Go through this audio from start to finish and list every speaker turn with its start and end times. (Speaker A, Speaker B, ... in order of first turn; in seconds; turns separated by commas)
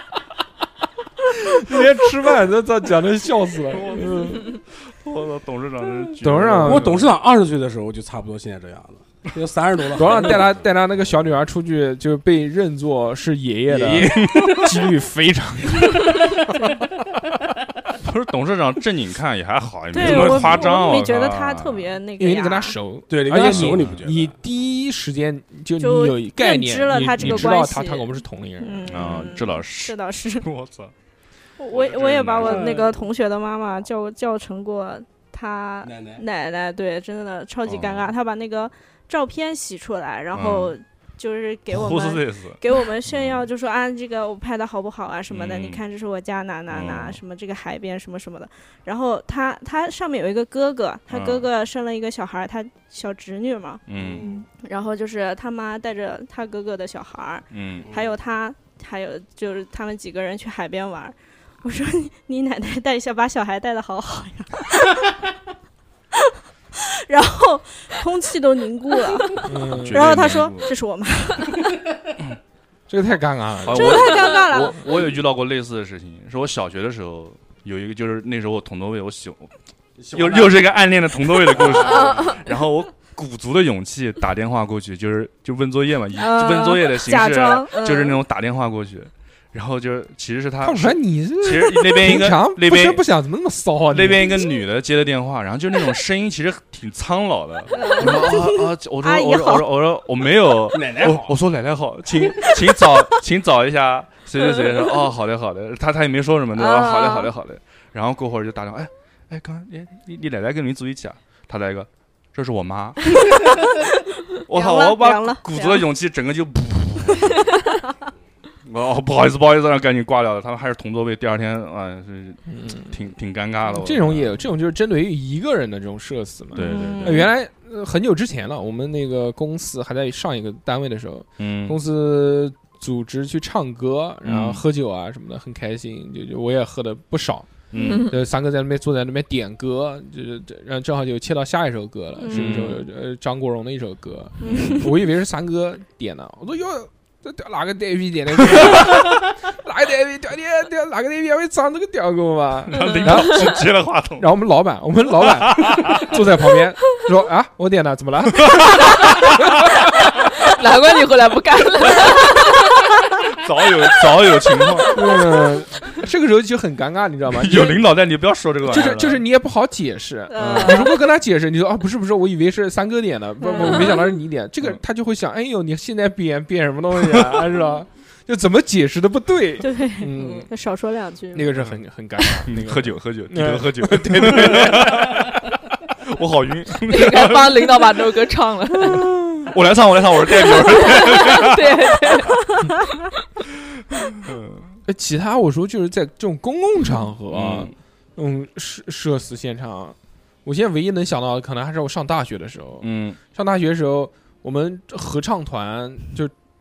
Speaker A: 1.4-4.5, Speaker B: 3.7-7.1, Speaker A: 6.2-6.9, Speaker C: 6.6-10.7, Speaker A: 10.0-16.2, Speaker C: 13.7-14.9, Speaker B: 14.2-14.5, Speaker C: 16.1-16.4, Speaker B: 18.0-21.9, Speaker D: 19.9-22.8, Speaker C: 20.0-20.7, Speaker A: 22.2-29.2, Speaker C: 23.1-24.4, Speaker B: 23.4-24.1, Speaker D: 25.8-30.5, Speaker B: 27.2-27.6, Speaker B: 28.9-30.9, Speaker D: 31.6-65.1, Speaker B: 31.7-32.9, Speaker C: 32.4-33.0, Speaker C: 35.8-36.2, Speaker B: 37.7-38.1, Speaker B: 40.3-40.8, Speaker B: 41.7-43.5, Speaker B: 45.3-45.8, Speaker B: 46.7-47.2, Speaker B: 51.1-51.5, Speaker B: 53.9-54.2, Speaker C: 53.9-54.4, Speaker B: 57.5-57.9, Speaker C: 57.8-58.1, Speaker D: 66.2-71.8, Speaker A: 69.4-70.2, Speaker B: 69.6-70.7, Speaker A: 72.9-74.0, Speaker B: 73.6-79.5, Speaker D: 73.7-74.9, Speaker C: 80.0-80.7, Speaker B: 80.1-93.0, Speaker C: 81.3-82.4, Speaker D: 81.8-82.4, Speaker D: 86.2-88.2, Speaker A: 90.6-94.4, Speaker B: 93.9-113.4, Speaker D: 97.7-99.7, Speaker C: 100.7-101.4, Speaker D: 102.2-102.5, Speaker D: 106.5-107.3, Speaker D: 113.2-115.9, Speaker B: 114.5-117.5, Speaker B: 118.6-124.3, Speaker A: 122.5-122.9, Speaker A: 123.7-137.5, Speaker B: 126.5-127.3, Speaker D: 126.5-127.3, Speaker B: 131.4-131.8, Speaker B: 134.2-134.6, Speaker B: 137.7-138.1, Speaker E: 137.8-138.2, Speaker A: 138.1-153.6, Speaker D: 142.2-142.6, Speaker B: 142.3-142.8, Speaker D: 144.4-144.9, Speaker B: 144.5-144.8, Speaker B: 148.5-149.1, Speaker B: 152.7-154.3, Speaker E: 153.0-153.3, Speaker A: 154.2-158.8, Speaker B: 155.2-156.2, Speaker B: 158.4-159.5, Speaker E: 160.4-162.8, Speaker B: 163.3-165.1, Speaker A: 164.9-167.8, Speaker B: 167.3-169.2, Speaker A: 168.7-180.5, Speaker D: 170.3-171.0, Speaker B: 170.4-170.8, Speaker D: 173.4-174.1, Speaker B: 177.1-177.5, Speaker D: 179.6-181.5, Speaker A: 181.3-185.2, Speaker B: 182.5-185.4, Speaker B: 186.0-188.0, Speaker E: 186.9-189.1, Speaker B: 188.8-192.2, Speaker E: 190.5-192.7, Speaker B: 194.0-194.7, Speaker A: 194.9-206.3, Speaker B: 197.3-197.7, Speaker B: 202.8-203.2